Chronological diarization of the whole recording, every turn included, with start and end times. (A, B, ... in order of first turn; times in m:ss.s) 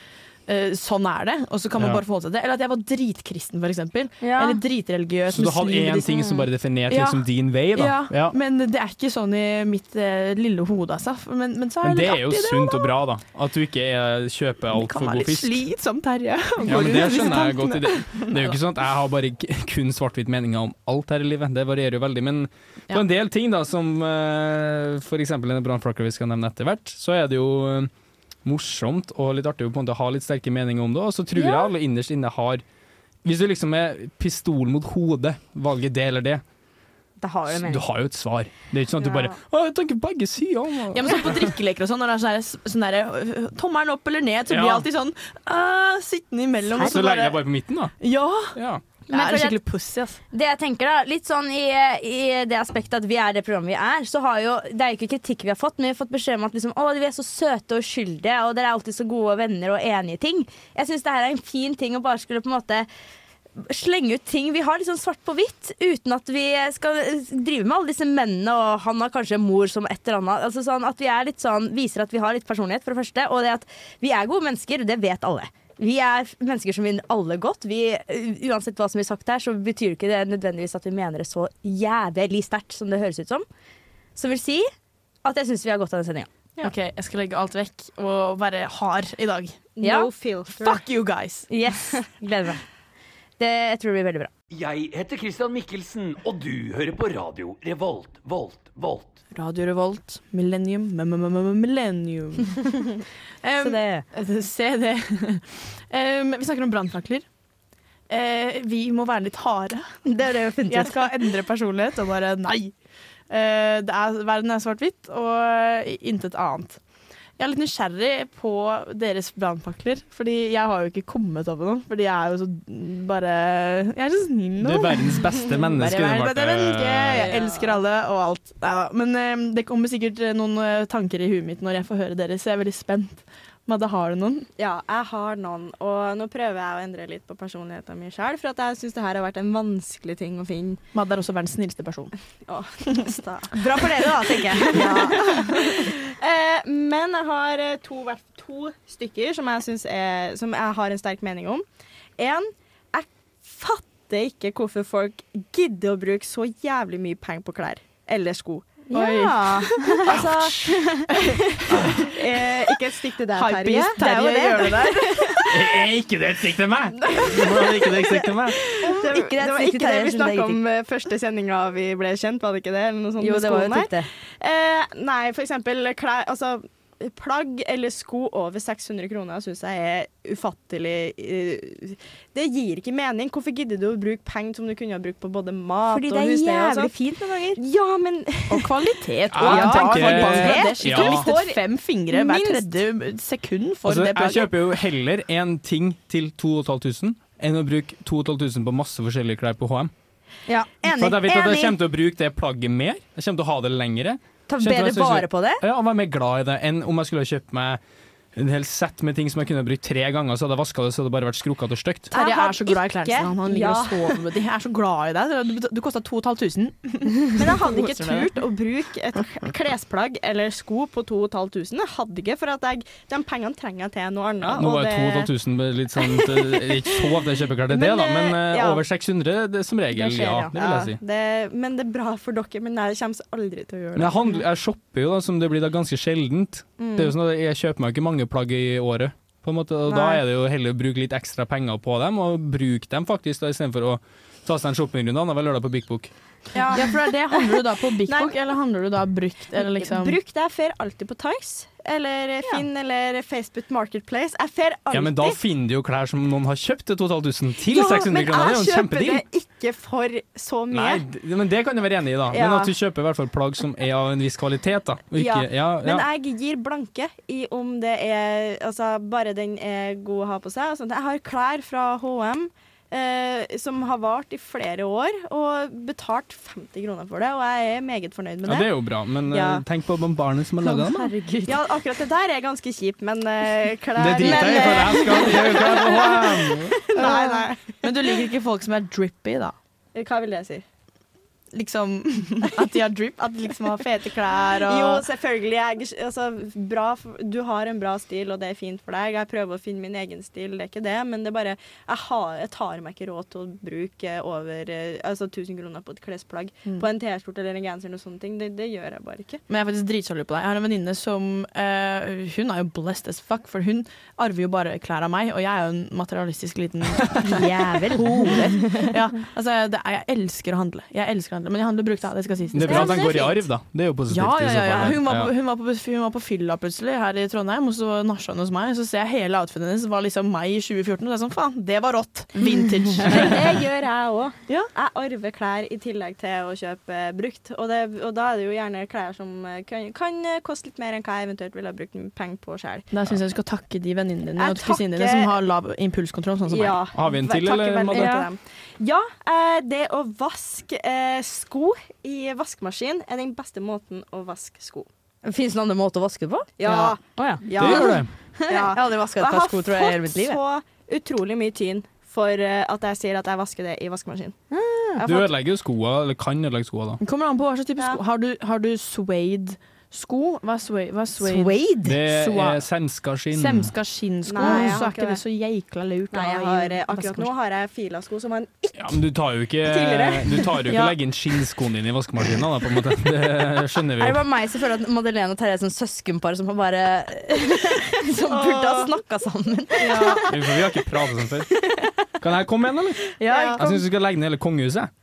0:00.5-0:06.3 A
0:04.2-0:04.6 B
0:05.3-0:08.3 C
0:06.9-0:12.9 A
0:11.8-0:15.6 C
0:14.7-0:18.6 A
0:16.6-0:27.9 C
0:28.4-0:32.6 C
0:31.4-0:31.7 B
0:33.2-0:36.4 C
0:37.2-0:37.8 B
0:37.5-0:41.4 C
0:39.0-0:39.3 D
0:40.9-0:47.4 A
0:44.5-0:44.8 C
0:46.8-0:47.9 C
0:48.0-0:48.6 A
0:48.5-0:48.8 C
0:49.1-0:49.6 B
0:49.1-0:50.2 A
0:50.3-1:02.9 B
1:03.6-1:23.4 B
1:24.1-1:24.6 B
1:25.2-1:26.3 B
1:26.6-1:29.6 A
1:29.8-1:30.8 D
1:29.8-1:30.1 B
1:30.5-1:31.5 A
1:31.5-1:32.6 B
1:33.4-1:34.3 B
1:34.5-1:39.2 E
1:39.3-1:42.9 A
1:43.4-1:47.2 A
1:43.6-1:44.0 B
1:48.1-1:49.9 A
1:50.0-1:51.2 B
1:50.7-1:52.7 A
1:53.3-1:56.8 A
1:57.4-2:14.5 A
2:04.6-2:07.2 C
2:07.1-2:07.8 D
2:14.6-2:20.8 D
2:20.9-2:22.1 A
2:22.5-2:23.9 D
2:23.5-2:25.1 B
2:24.6-2:31.6 D
2:24.7-2:25.9 A
2:32.2-2:45.5 D
2:38.9-2:41.0 B
2:38.9-2:42.5 A
2:43.3-2:45.6 A
2:44.0-2:44.2 B
2:45.5-2:48.6 C
2:47.0-2:47.9 D
2:48.8-3:06.9 D
2:49.0-2:50.6 B
2:53.2-2:54.1 B
3:05.9-3:07.6 B
3:07.6-3:08.7 D
3:08.5-3:14.6 A
3:09.3-3:11.3 C
3:09.4-3:11.6 D
3:12.1-3:12.7 D
3:13.8-3:19.9 C
3:20.5-3:21.8 B
3:20.9-3:27.8 C
3:24.5-3:25.6 B
3:28.4-3:32.1 C
3:32.1-3:38.3 A
3:32.1-3:34.2 D
3:37.4-3:45.3 D
3:44.4-3:51.0 C
3:46.0-3:47.2 D
3:47.7-3:48.8 D
3:49.9-3:54.2 D
3:54.0-4:06.1 C
3:56.8-3:57.1 D
3:59.8-4:00.2 D
4:06.5-4:08.4 D
4:06.7-4:10.2 A
4:09.6-4:15.4 D
4:14.9-4:19.2 C
4:17.6-4:21.0 D
4:20.7-4:26.0 C
4:22.3-4:22.7 D
4:25.2-4:38.7 D
4:38.4-4:41.1 C
4:39.2-4:39.6 D
4:40.6-4:41.6 B
4:41.4-4:47.9 D
4:44.0-4:46.8 C
4:44.2-4:45.4 B
4:47.0-4:49.5 A
4:49.9-4:50.6 D
4:51.5-4:55.0 A
4:54.6-5:09.4 D
5:09.5-5:23.2 A
5:17.2-5:18.9 B
5:22.5-5:25.3 C
5:22.7-5:23.3 B
5:22.7-5:23.2 D
5:24.1-5:33.4 A
5:33.0-5:42.9 D
5:42.9-5:46.8 A
5:44.4-5:45.3 D
5:46.5-5:54.9 D
5:46.9-5:48.1 C
5:47.9-5:48.3 B
5:55.2-6:00.4 B
5:56.6-6:04.4 D
5:57.5-5:58.1 C
6:04.5-6:05.0 B
6:05.0-6:05.3 D
6:05.0-6:07.0 C
6:07.0-6:12.6 A
6:11.2-6:12.0 B
6:11.8-6:13.7 C
6:13.3-6:17.3 A
6:14.2-6:15.2 D
6:14.4-6:14.7 B
6:16.1-6:19.0 D
6:18.8-6:24.2 C
6:19.6-6:20.5 D
6:20.7-6:20.9 A
6:24.0-6:30.2 B
6:28.3-6:29.0 D
6:29.8-6:30.2 A
6:29.8-6:30.2 D
6:30.3-6:31.5 C
6:32.2-6:34.9 C
6:33.2-6:33.8 B
6:33.2-6:33.6 D